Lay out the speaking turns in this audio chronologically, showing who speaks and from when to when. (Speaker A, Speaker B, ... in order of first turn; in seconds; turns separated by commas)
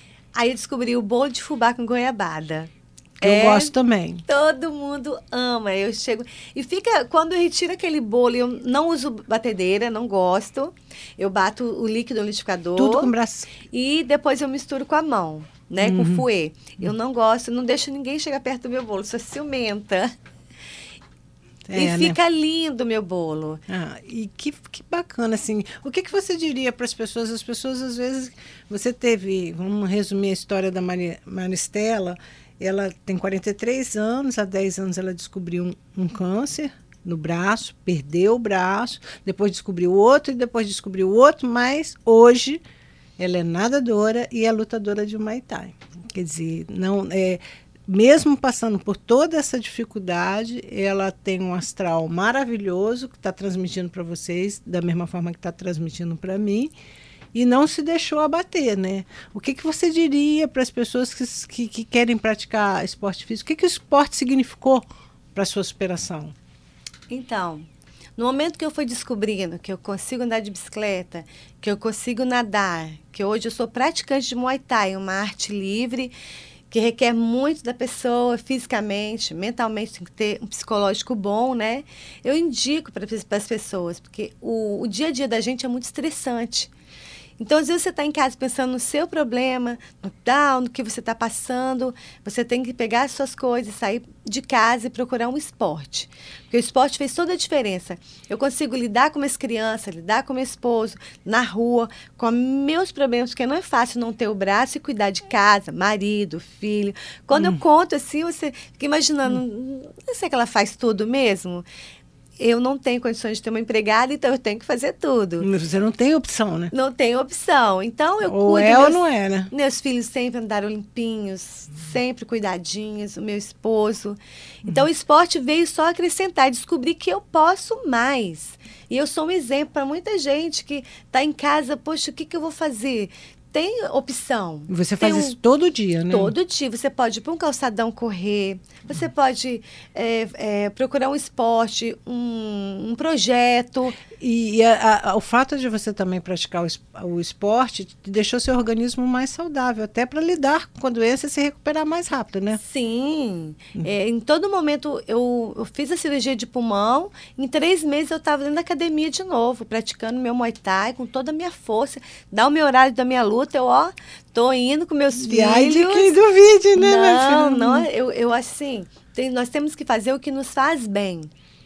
Speaker A: 0.3-13.1, Speaker B: 3.2-4.2, Speaker B: 12.8-13.5, Speaker A: 13.7-20.1, Speaker B: 15.8-16.3, Speaker B: 21.7-22.2, Speaker A: 21.8-23.6, Speaker B: 23.7-42.6, Speaker B: 43.2-56.7, Speaker B: 57.3-66.3, Speaker A: 67.1-76.1, Speaker A: 76.7-86.7, Speaker A: 87.4-111.7, Speaker B: 107.3-107.6, Speaker A: 112.4-115.5, Speaker B: 115.4-116.7, Speaker A: 116.7-135.4, Speaker B: 118.2-119.5, Speaker B: 134.7-136.3, Speaker A: 136.1-144.0, Speaker B: 144.2-152.6, Speaker A: 152.6-166.2, Speaker B: 165.1-167.9, Speaker A: 166.8-171.3